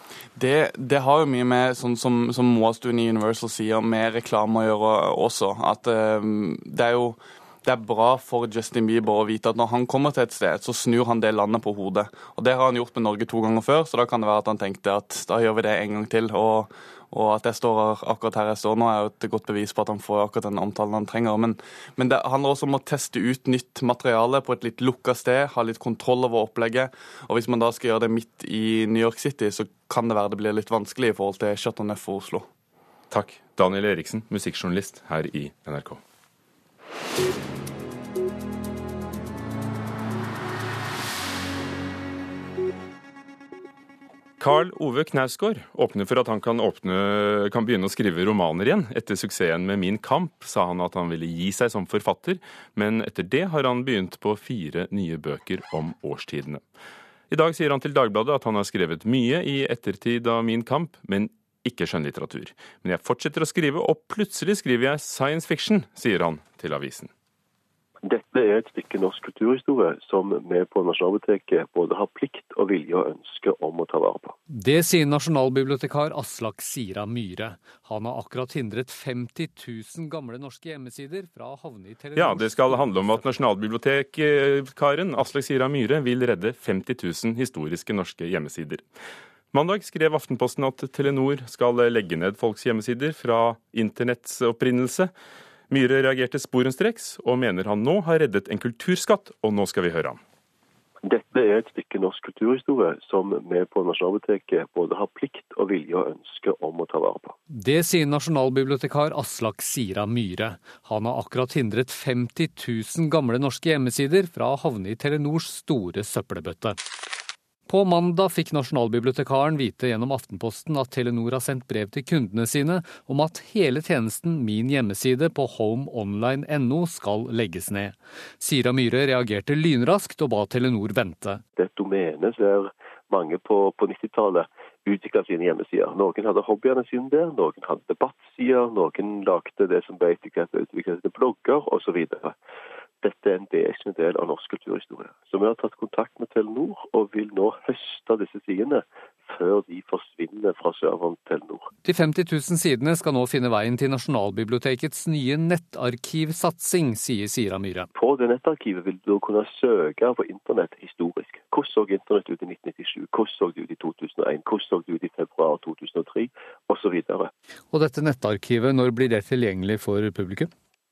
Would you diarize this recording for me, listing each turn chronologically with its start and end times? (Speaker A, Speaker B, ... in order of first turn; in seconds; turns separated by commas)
Speaker A: 0.4-32.5, Speaker B: 33.1-36.0, Speaker B: 44.4-56.6, Speaker B: 57.3-67.1, Speaker C: 68.0-74.3, Speaker D: 74.5-83.2, Speaker B: 82.2-88.9, Speaker B: 89.5-95.1, Speaker B: 95.7-100.2, Speaker C: 101.0-107.4, Speaker D: 107.5-116.8, Speaker D: 117.7-131.4, Speaker C: 131.6-142.3, Speaker C: 143.0-151.7, Speaker D: 151.8-157.9, Speaker C: 158.0-167.3, Speaker D: 167.7-170.5